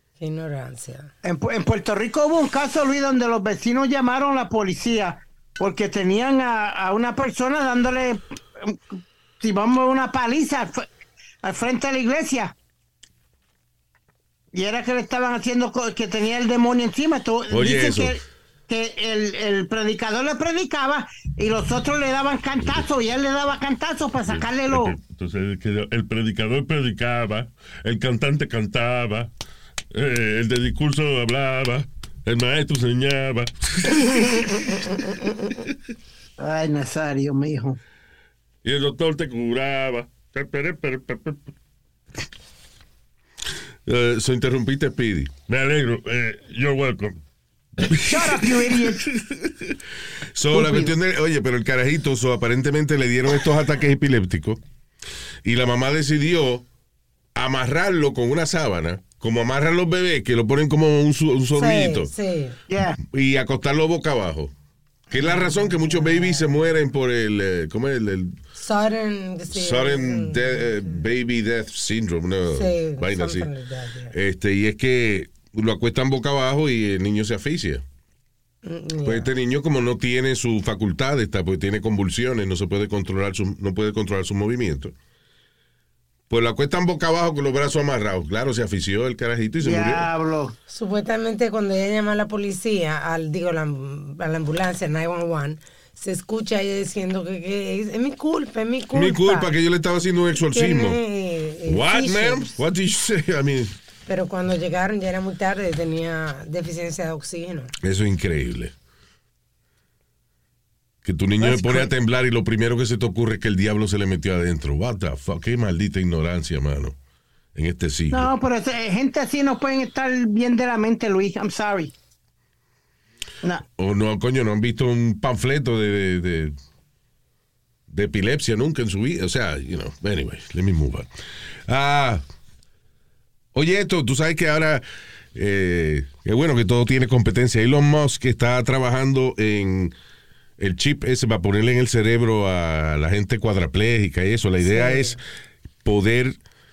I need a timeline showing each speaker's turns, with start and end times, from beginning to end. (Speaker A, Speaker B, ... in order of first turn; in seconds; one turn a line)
Speaker A: 0.2-1.1
Speaker B: 1.2-10.8
Speaker B: 11.4-12.5
Speaker B: 14.5-24.9
Speaker C: 17.5-18.2
Speaker D: 24.2-29.3
Speaker D: 29.9-34.9
Speaker B: 36.4-37.8
Speaker D: 38.6-41.5
Speaker C: 43.9-45.3
Speaker D: 45.5-47.2
Speaker B: 48.0-49.1
Speaker C: 48.9-49.8
Speaker C: 50.3-54.6
Speaker B: 50.5-50.9
Speaker C: 55.4-56.6
Speaker C: 57.3-62.1
Speaker A: 61.5-62.6
Speaker B: 62.7-63.0
Speaker C: 63.0-64.5
Speaker A: 65.1-66.5
Speaker C: 65.1-68.4
Speaker A: 68.5-71.0
Speaker C: 69.5-73.5
Speaker A: 72.5-74.1
Speaker C: 74.1-77.8
Speaker A: 78.6-79.3
Speaker C: 79.0-84.9
Speaker C: 86.3-90.1
Speaker B: 89.6-90.5
Speaker A: 90.7-99.5
Speaker C: 98.9-101.0
Speaker A: 100.5-102.6
Speaker C: 101.7-103.7
Speaker A: 104.1-107.7
Speaker C: 107.8-108.7
Speaker C: 111.0-117.0
Speaker B: 111.4-111.9
Speaker C: 117.5-118.3
Speaker B: 118.1-121.9
Speaker C: 123.8-126.5
Speaker C: 127.9-131.1
Speaker C: 131.7-132.2
Speaker C: 133.5-134.8
Speaker C: 135.3-139.9
Speaker C: 140.6-145.2
Speaker A: 144.6-145.2
Speaker C: 145.8-146.4